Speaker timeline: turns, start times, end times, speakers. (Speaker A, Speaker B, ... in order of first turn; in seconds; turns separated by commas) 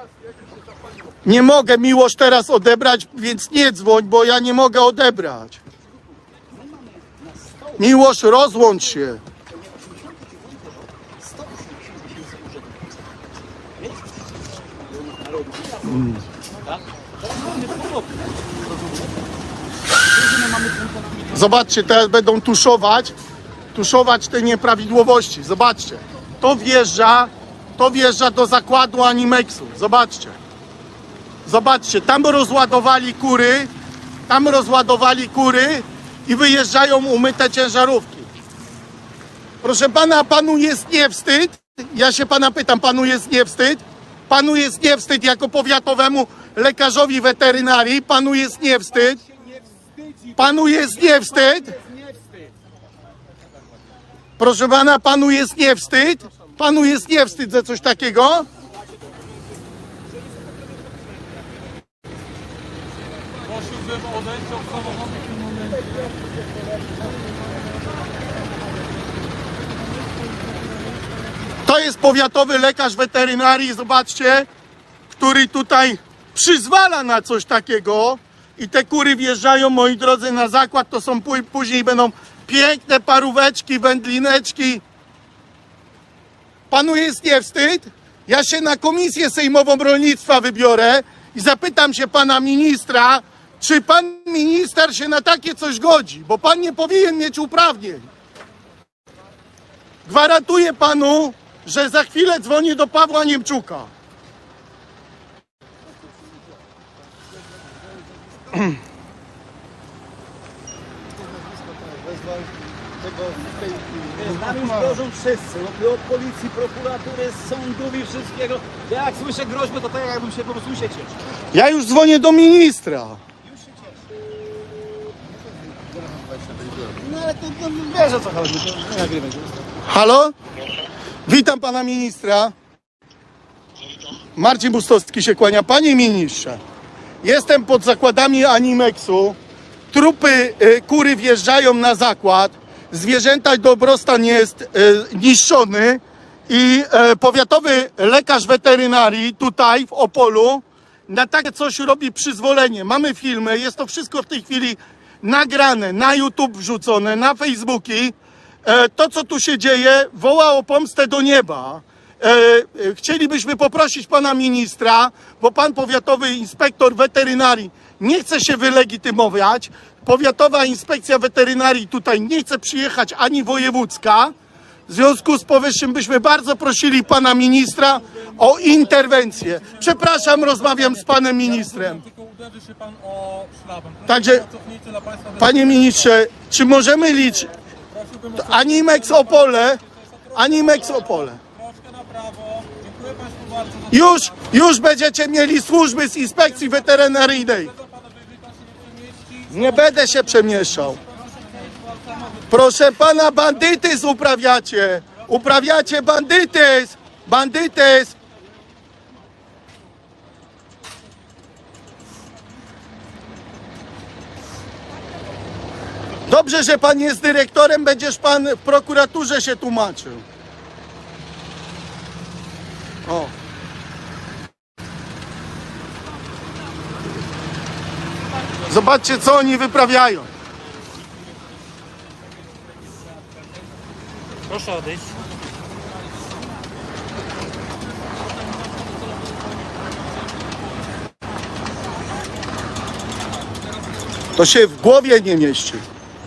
Speaker A: 1.2-5.6, Speaker B: 6.5-7.9, Speaker A: 7.8-9.2, Speaker B: 9.6-12.9, Speaker B: 14.9-16.1, Speaker A: 15.9-16.2, Speaker B: 16.6-19.1, Speaker B: 20.1-21.4, Speaker A: 21.3-23.1, Speaker A: 23.8-30.4, Speaker A: 31.5-33.7, Speaker A: 34.3-38.3, Speaker A: 39.6-49.2, Speaker A: 50.4-51.8, Speaker B: 51.1-52.2, Speaker A: 54.4-58.5, Speaker C: 63.5-65.8, Speaker A: 71.6-74.5, Speaker A: 75.1-84.8, Speaker A: 86.7-98.1, Speaker A: 100.1-103.9, Speaker B: 111.8-112.5, Speaker B: 113.1-121.2, Speaker A: 114.2-115.0, Speaker A: 121.5-123.2, Speaker B: 126.9-129.6, Speaker A: 129.8-130.3, Speaker A: 131.3-132.5, Speaker A: 134.3-136.6, Speaker A: 137.2-139.4, Speaker A: 139.9-174.3, Speaker A: 174.9-182.1, Speaker C: 182.1-185.3, Speaker A: 184.1-184.5, Speaker A: 185.3-187.5, Speaker C: 188.0-188.2, Speaker A: 188.3-189.8, Speaker A: 190.3-191.4, Speaker C: 191.7-193.9, Speaker A: 193.9-197.7, Speaker C: 198.2-199.4, Speaker A: 199.5-201.0, Speaker C: 201.6-202.3, Speaker A: 202.5-208.2, Speaker A: 216.3-220.2, Speaker A: 223.1-223.3, Speaker A: 228.6-230.3, Speaker C: 234.5-235.2, Speaker A: 244.3-245.8